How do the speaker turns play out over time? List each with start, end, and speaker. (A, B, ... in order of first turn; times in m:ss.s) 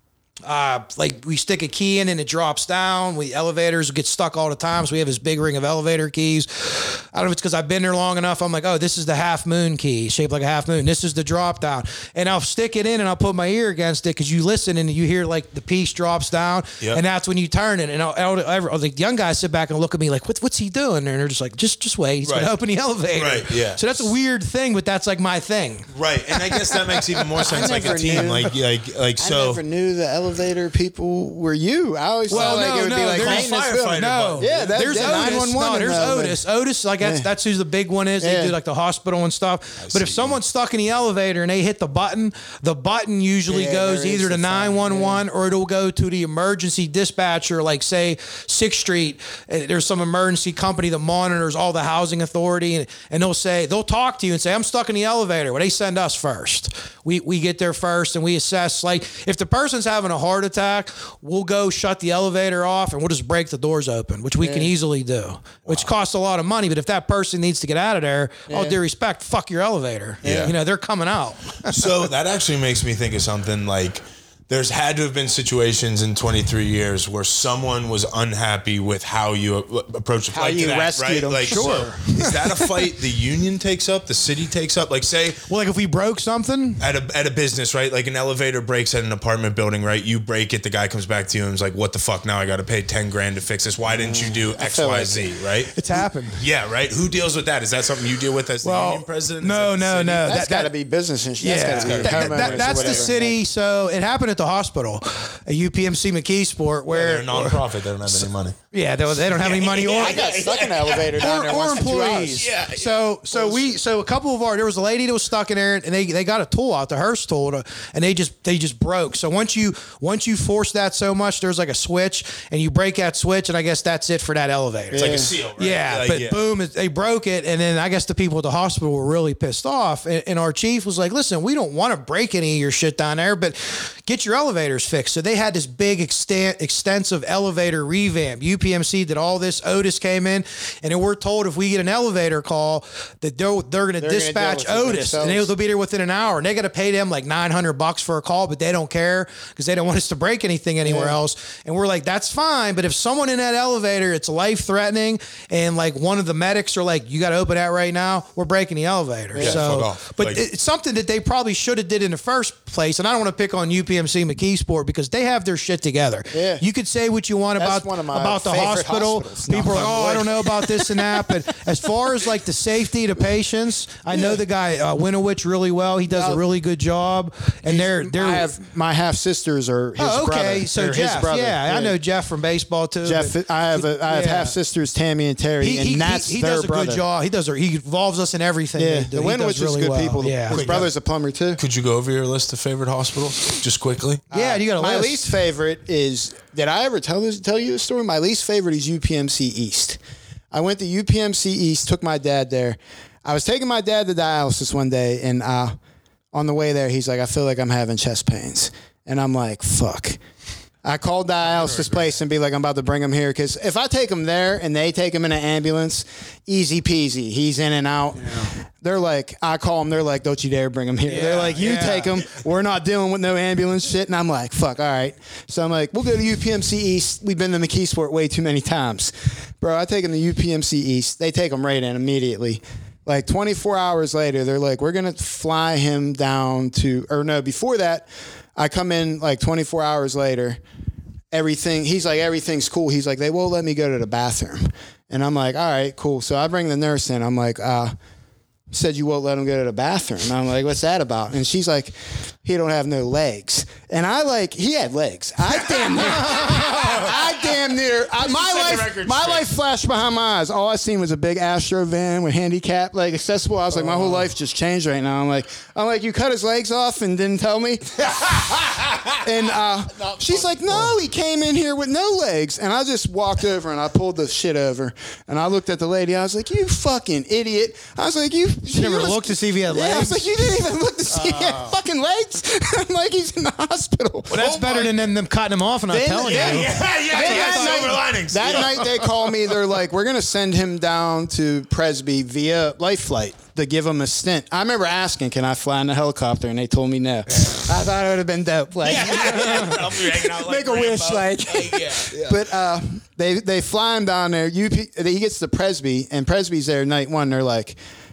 0:00.4-0:28.4 A
0:22.2-0:22.5 B
0:23.2-0:24.1 B
0:25.9-0:29.6 B
0:27.5-0:28.6 C
0:29.2-0:36.4 C
0:32.3-0:35.0 B
0:32.3-1:11.9 A
0:37.0-0:37.3 C
0:38.2-0:38.6 C
0:39.8-0:40.4 B
0:43.5-0:45.2 C
1:04.4-1:04.7 C
1:08.5-1:08.8 C
1:10.2-1:10.5 B
1:10.2-1:10.5 C
1:11.6-1:25.4 B
1:20.3-1:22.5 C
1:21.5-1:22.3 A
1:25.5-1:26.8 A
1:26.8-1:35.7 B
1:33.9-1:35.3 C
1:35.8-1:36.4 A
1:36.4-1:40.3 B
1:38.6-1:40.7 A
1:40.2-1:43.4 C
1:41.4-1:50.2 A
1:41.8-1:43.1 B
1:46.9-1:48.6 B
1:49.3-1:51.7 B
1:49.8-1:52.5 C
1:51.2-2:58.5 A
1:52.4-1:53.7 B
2:04.9-2:05.3 C
2:04.9-2:06.4 B
2:24.0-2:25.5 C
2:30.8-2:31.2 C
2:39.3-2:39.6 C
2:39.4-2:40.4 B
2:46.3-2:46.6 C
2:47.6-2:51.2 C
2:56.1-2:56.4 C
2:57.7-3:02.0 C
3:00.0-3:04.6 A
3:03.0-3:07.0 C
3:05.6-3:10.7 A
3:08.8-3:11.6 C
3:10.5-3:10.9 B
3:11.6-3:14.2 B
3:14.3-3:20.0 C
3:14.3-3:15.4 A
3:20.5-3:25.8 C
3:26.3-3:30.2 C
3:30.8-4:00.6 C
3:31.6-3:31.9 B
3:41.1-3:42.2 A
4:01.3-4:08.0 C
4:08.7-4:28.0 C
4:15.7-4:17.6 B
4:18.1-4:19.6 B
4:28.0-4:30.8 B
4:29.2-4:44.7 C
4:38.7-4:40.3 A
4:41.3-4:41.6 B
4:44.3-4:48.0 A
4:44.4-4:44.9 B
4:45.9-5:07.8 C
4:46.3-4:49.2 B
4:58.8-5:02.5 B